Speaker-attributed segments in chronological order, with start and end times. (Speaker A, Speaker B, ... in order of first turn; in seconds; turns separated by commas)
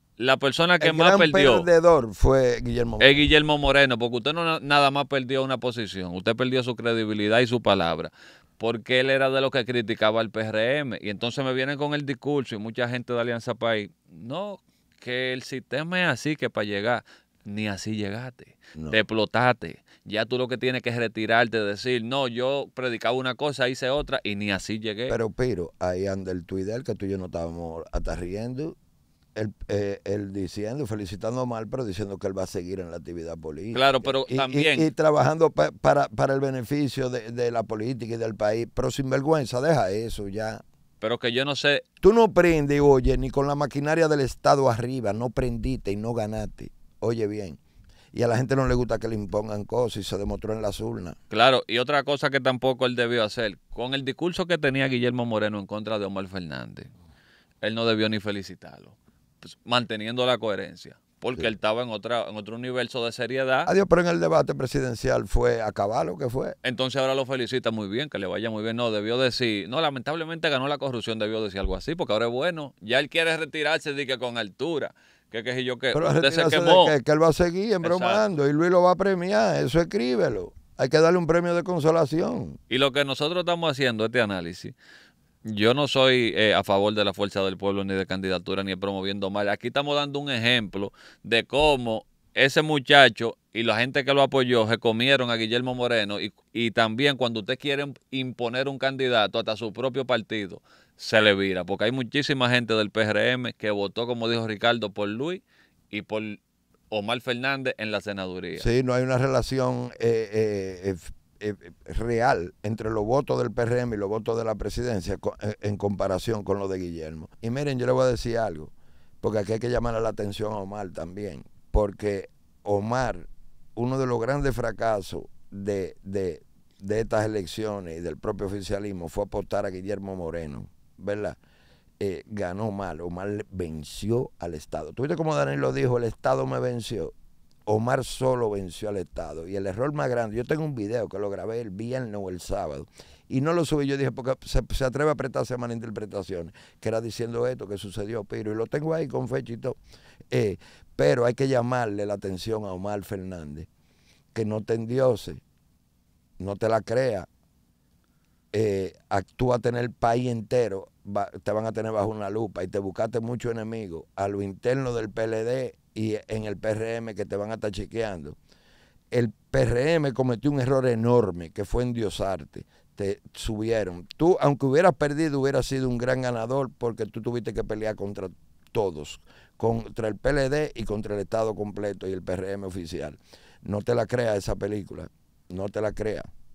Speaker A: 0.2-1.7, Speaker B: 0.8-3.2, Speaker A: 3.0-25.2, Speaker B: 25.1-28.8, Speaker B: 29.4-40.6, Speaker A: 33.7-34.9, Speaker A: 41.0-41.8, Speaker B: 42.0-47.6, Speaker B: 48.1-51.2, Speaker A: 51.3-56.9, Speaker A: 57.6-63.7, Speaker B: 63.7-66.6, Speaker A: 66.6-77.0, Speaker B: 75.9-82.6, Speaker A: 77.8-78.2, Speaker A: 82.7-84.8, Speaker A: 85.5-106.4, Speaker A: 106.9-108.6, Speaker B: 108.6-131.4, Speaker B: 132.0-137.1, Speaker B: 137.7-149.8, Speaker B: 150.3-153.7, Speaker B: 154.3-155.4, Speaker B: 156.4-157.3, Speaker B: 158.5-168.4, Speaker B: 169.1-186.3